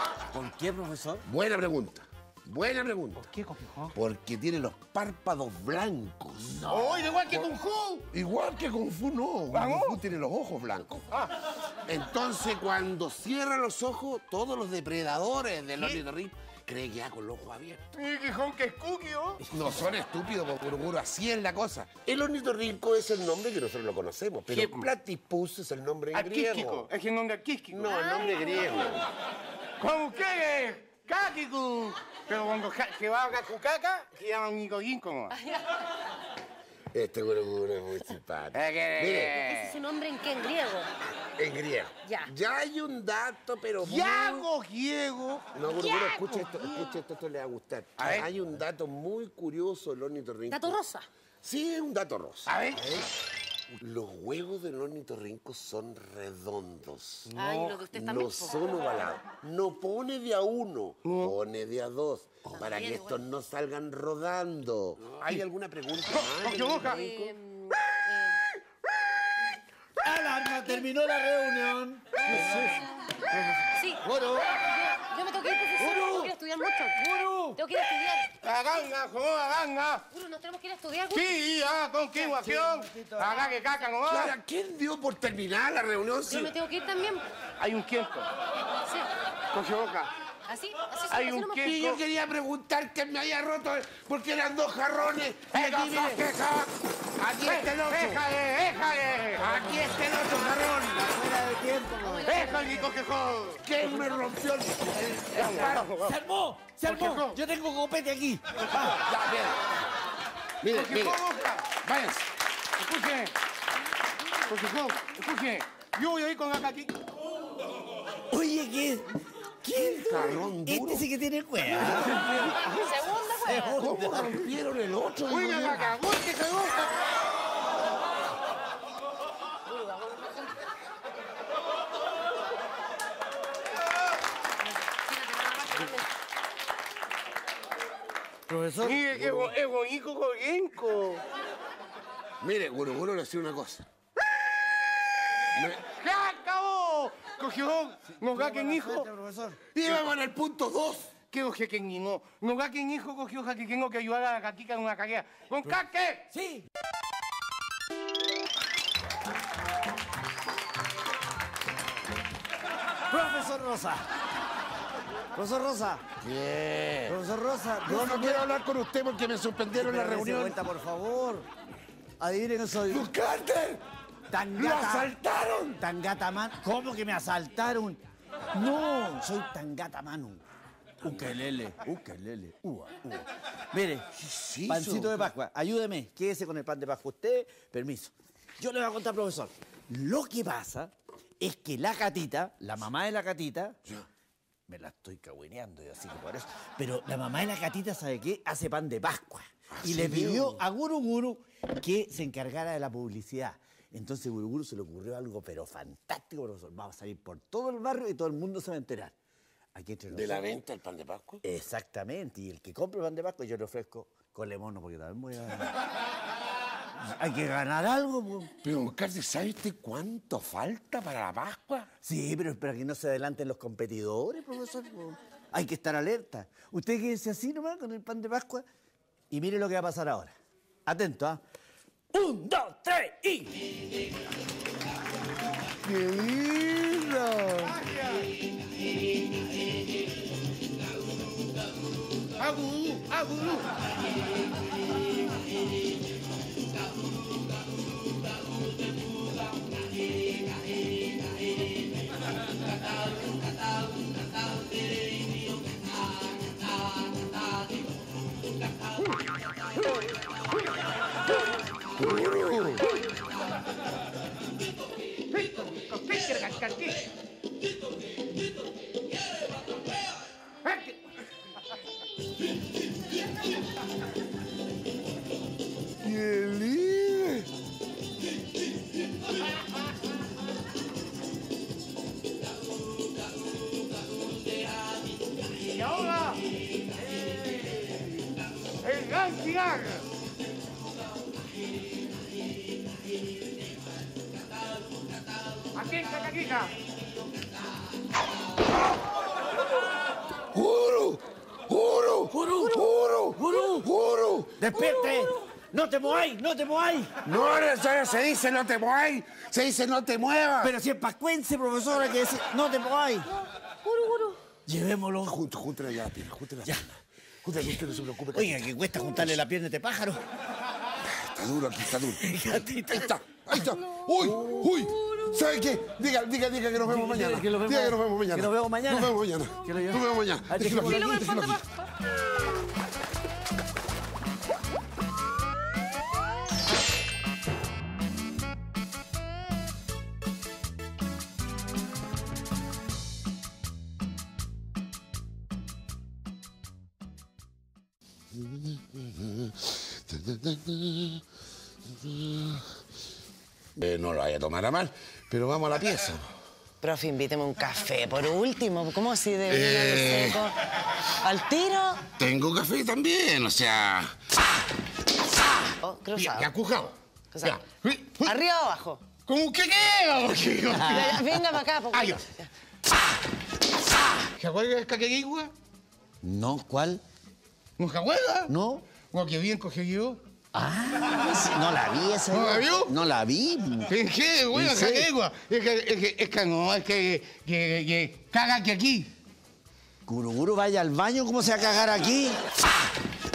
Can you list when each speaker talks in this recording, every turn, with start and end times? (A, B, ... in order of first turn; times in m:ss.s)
0:00.3-0:01.2 A
0:01.2-0:03.2 B
0:03.2-0:04.0 C
0:03.9-0:06.7 B
0:06.4-0:07.2 A
0:06.7-0:08.1 C
0:08.1-0:11.1 B
0:09.5-0:10.0 C
0:11.9-0:17.9 B
0:15.8-0:16.0 C
0:18.0-0:19.4 C
0:19.5-0:26.9 B
0:24.5-0:24.9 C
0:26.1-0:27.9 C
0:27.7-0:29.1 B
0:27.8-0:29.0 D
0:29.8-0:35.4 C
0:35.4-0:35.6 D
0:36.9-0:39.4 B
0:38.5-0:39.8 C
0:39.4-0:40.9 D
0:41.4-0:44.5 B
0:42.0-0:42.3 D
0:43.8-0:46.9 C
0:45.5-0:50.8 B
0:45.7-0:46.0 D
0:48.0-0:48.3 C
0:50.5-0:51.1 D
0:51.4-0:52.5 B
0:52.5-0:52.8 C
0:52.8-0:53.1 A
0:53.7-0:57.3 B
0:57.3-0:57.8 C
0:57.4-0:58.9 D
0:57.9-1:07.3 B
1:01.0-1:01.4 C
1:02.6-1:03.2 D
1:06.1-1:07.0 C
1:06.5-1:08.4 D
1:10.0-1:14.6 A
1:12.2-1:12.9 D
1:12.2-1:12.8 C
1:13.7-1:17.0 D
1:15.8-1:16.3 A
1:17.0-1:17.6 A
1:17.6-1:18.3 D
1:18.4-1:20.1 C
1:20.1-1:21.4 D
1:21.1-1:24.4 C
1:22.1-1:23.6 A
1:24.1-1:26.5 B
1:26.3-1:27.2 D
1:27.6-1:28.3 C
1:29.5-1:30.1 C
1:30.5-1:31.8 D
1:31.1-1:32.0 C
1:31.5-1:38.2 B
1:35.5-1:36.5 C
1:37.4-1:39.8 C
1:39.4-1:41.1 B
1:40.9-1:42.9 A
1:42.0-1:42.9 D
1:42.2-1:43.6 C
1:43.6-1:45.9 B
1:45.3-1:46.2 C
1:45.5-1:48.4 A
1:46.8-1:47.4 C
1:48.7-1:49.7 B
1:50.6-1:51.2 B
1:50.7-1:51.7 C
1:51.8-1:52.3 B
1:52.8-1:53.3 C
1:54.5-1:57.0 C
1:58.3-2:04.5 A
1:59.7-2:01.1 B
2:01.8-2:02.5 B
2:02.6-2:03.8 D
2:03.8-2:06.0 B
2:05.3-2:07.0 C
2:09.7-2:10.5 D
2:14.7-2:16.1 D
2:18.5-2:19.5 A
2:18.8-2:21.2 C
2:22.4-2:23.9 B
2:25.6-2:25.8 B
2:25.8-2:29.1 C
2:28.1-2:29.6 A
2:29.7-2:31.1 B
2:31.3-2:36.3 C
2:36.3-2:36.7 A
2:43.1-2:44.1 A
2:45.4-2:46.0 A
2:46.2-2:47.2 B
2:47.1-2:48.4 A
2:47.8-2:50.6 B
2:49.7-2:51.5 A
2:52.2-2:53.1 A
2:52.9-2:53.8 B
2:54.3-2:55.1 A
2:54.6-2:55.8 B
2:55.8-2:58.0 A
2:58.5-3:00.4 A
3:01.0-3:01.4 B
3:01.0-3:02.6 A
3:02.6-3:03.3 B
3:03.7-3:04.1 A
3:04.2-3:05.3 B
3:04.7-3:13.8 A
3:14.7-3:29.1 A
3:19.8-3:20.6 B
3:29.7-3:30.5 A
3:30.1-3:31.4 B
3:31.4-3:35.8 A
3:37.0-3:38.5 A
3:38.6-3:41.9 B
3:42.0-3:48.7 A
3:49.3-3:51.4 A
3:52.1-3:53.6 A
3:55.8-3:57.7 B
3:57.6-3:58.3 C
4:02.4-4:03.7 C
4:22.0-4:22.9 B
4:25.3-4:27.0 C
4:30.6-4:31.0 C
4:36.0-4:37.5 B
4:45.6-4:46.4 C
4:48.8-4:50.0 C
4:55.8-4:56.7 C
5:00.5-5:04.6 B
5:02.3-5:03.9 A
5:04.6-5:07.1 A
5:07.2-5:10.7 B
5:10.6-5:13.3 A
5:13.8-5:14.4 D
5:14.7-5:15.4 A
5:15.2-5:19.4 B
5:17.6-5:20.2 A
5:21.0-5:31.6 B
5:21.8-5:23.1 A
5:24.2-5:24.9 A
5:26.8-5:31.6 A
5:30.8-5:32.1 D
5:48.3-5:51.2 B
5:51.9-5:52.7 B
5:53.8-5:56.3 B
5:56.8-6:00.6 E
5:59.5-6:00.4 B
6:01.2-6:02.1 E
6:02.1-6:04.2 B
6:05.8-6:06.5 E
6:06.1-6:08.3 C
6:07.3-6:07.6 E
6:08.2-6:09.0 E
6:09.3-6:11.3 C
6:10.8-6:12.5 E
6:11.9-6:12.2 C
6:14.3-6:15.5 C
6:16.2-6:17.0 A
6:17.8-6:18.5 C
6:18.5-6:18.8 A
6:19.1-6:20.2 C
6:20.5-6:23.9 A
6:22.3-6:22.9 C
6:23.9-6:29.1 C
6:24.5-6:25.1 A
6:30.1-6:32.5 A